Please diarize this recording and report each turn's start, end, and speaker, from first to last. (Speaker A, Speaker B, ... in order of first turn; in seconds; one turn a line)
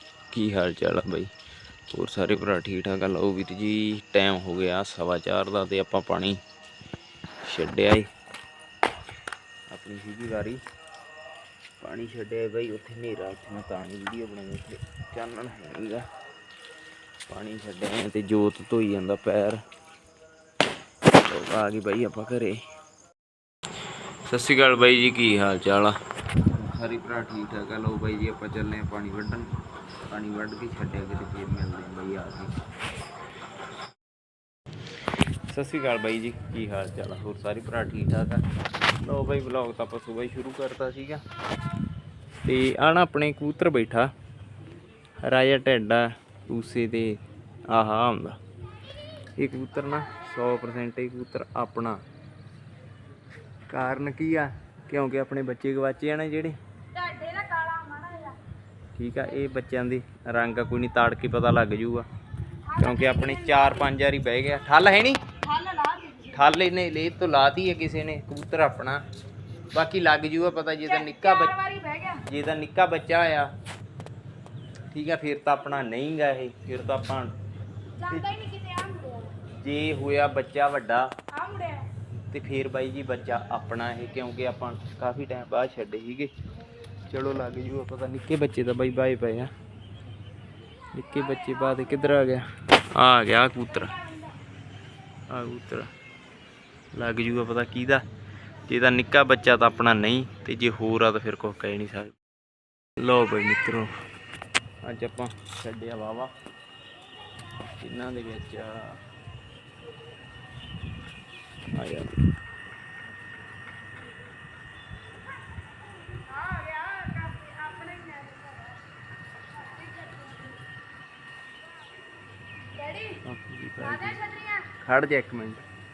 Speaker A: 0.3-1.3
Speaker A: 1.9-6.4
Speaker A: 7.4-8.1
Speaker A: 9.7-10.6
Speaker A: 11.8-16.1
Speaker A: 17.3-19.6
Speaker A: 21.1-22.6
Speaker A: 24.3-25.9
Speaker A: 26.5-29.5
Speaker A: 30.1-32.5
Speaker A: 35.5-38.4
Speaker A: 39.0-41.2
Speaker A: 42.4-44.1
Speaker A: 45.2-48.4
Speaker A: 49.4-52.0
Speaker A: 53.7-56.6
Speaker B: 56.9-58.4
Speaker A: 58.9-62.1
Speaker A: 62.7-65.2
Speaker B: 65.5-66.3
Speaker A: 66.2-69.0
Speaker A: 69.7-73.5
Speaker B: 71.4-72.2
Speaker A: 74.9-77.3
Speaker A: 78.1-78.3
Speaker B: 78.1-79.3
Speaker A: 79.5-81.1
Speaker B: 81.4-81.9
Speaker A: 82.3-86.3
Speaker A: 87.1-89.5
Speaker A: 90.9-94.0
Speaker A: 95.3-95.9
Speaker A: 96.9-98.0
Speaker A: 98.7-102.1
Speaker A: 103.0-103.9
Speaker A: 104.8-106.3
Speaker A: 107.7-109.0
Speaker A: 111.7-112.2
Speaker B: 116.2-118.8
Speaker B: 119.6-120.4
Speaker B: 122.8-123.2
Speaker A: 123.2-125.6
Speaker B: 124.1-124.7